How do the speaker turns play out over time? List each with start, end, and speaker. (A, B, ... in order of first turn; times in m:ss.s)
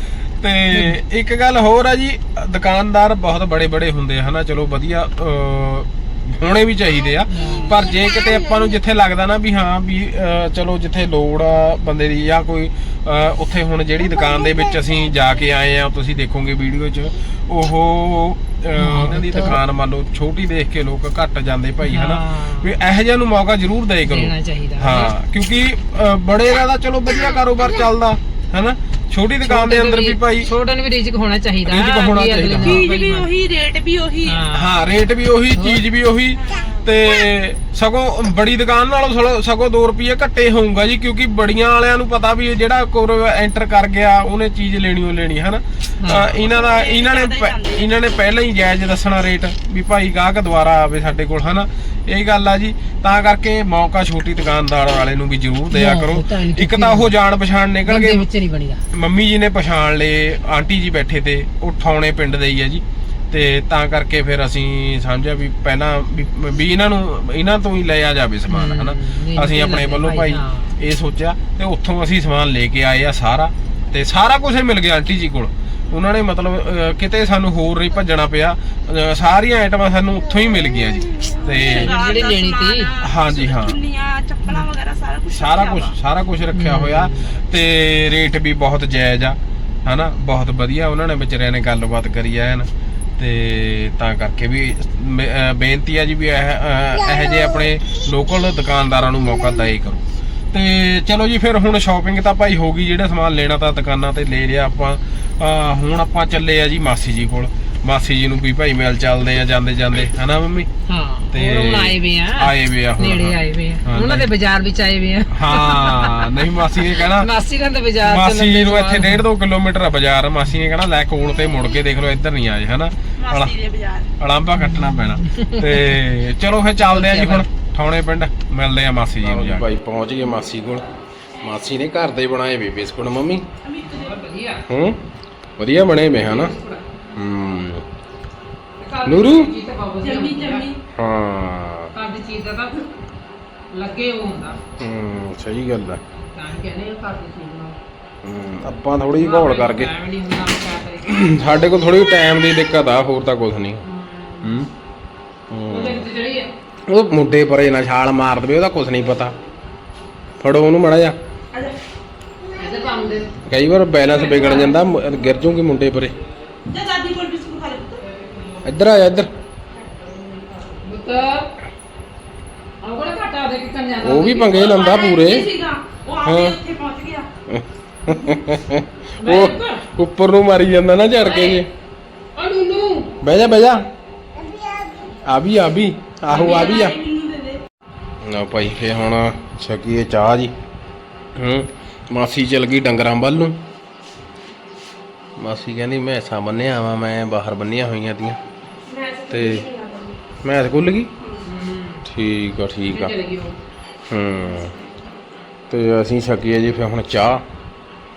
0:00.4-0:30.5 A
0:00.7-0:01.0 B
0:07.3-0:07.8 B
0:18.8-0:19.6 B
0:21.8-0:22.8 B
0:24.0-0:25.1 B
0:29.4-0:33.3 B
0:31.6-0:32.8 A
0:32.6-0:34.4 C
0:34.2-0:34.8 B
0:34.5-0:58.3 A
0:35.6-0:35.8 B
0:36.4-0:36.9 C
0:46.0-0:46.4 B
0:46.4-0:47.9 C
0:55.7-0:57.2 B
0:57.9-0:58.8 B
0:58.9-1:22.0 A
1:08.5-1:10.8 B
1:21.3-1:26.0 C
1:21.5-1:22.9 B
1:23.0-1:23.8 A
1:25.3-1:50.7 A
1:26.5-1:27.4 B
1:50.9-1:59.2 B
1:51.3-1:54.3 A
1:55.3-1:57.3 A
1:58.0-2:03.5 A
2:03.2-2:04.1 C
2:04.2-2:10.9 A
2:04.6-2:06.0 B
2:06.8-2:07.5 B
2:11.4-2:13.5 A
2:13.6-2:14.2 C
2:13.8-2:14.6 B
2:14.7-2:15.0 A
2:15.6-2:16.5 A
2:16.1-2:16.8 B
2:17.2-2:17.8 A
2:18.8-2:20.7 B
2:19.0-2:19.5 A
2:20.0-2:20.8 C
2:21.0-2:21.9 A
2:21.9-2:22.8 B
2:23.7-2:24.6 B
2:24.8-2:26.0 A
2:26.2-2:27.8 B
2:28.2-2:29.9 A
2:29.2-2:31.4 B
2:31.0-2:33.8 A
2:33.8-2:34.6 B
2:34.4-2:34.7 A
2:35.5-2:36.1 A
2:35.7-2:36.5 B
2:36.9-2:39.4 A
2:40.4-2:41.2 A
2:41.5-2:41.8 C
2:42.6-2:43.4 B
2:43.5-2:46.2 A
2:44.1-2:45.1 B
2:44.1-2:44.7 C
2:46.7-2:48.0 C
2:48.6-2:49.3 A
2:50.7-2:51.5 B
2:52.8-2:54.7 B
2:54.0-2:55.5 A
2:54.5-2:57.3 C
2:56.2-2:56.6 A
2:57.5-3:01.7 A
2:59.2-2:59.8 B
3:01.2-3:01.7 B
3:02.4-3:03.1 B
3:03.2-3:03.9 A
3:05.2-3:07.0 A
3:06.3-3:07.6 C
3:08.2-3:10.5 A
3:11.4-3:13.6 A
3:15.4-3:18.4 A
3:18.9-3:20.2 C
3:19.3-3:19.7 A
3:20.4-3:21.1 A
3:21.2-3:21.5 C
3:21.4-3:22.1 B
3:22.0-3:23.1 A
3:22.9-3:23.6 B
3:24.1-3:24.8 A
3:25.7-3:27.4 A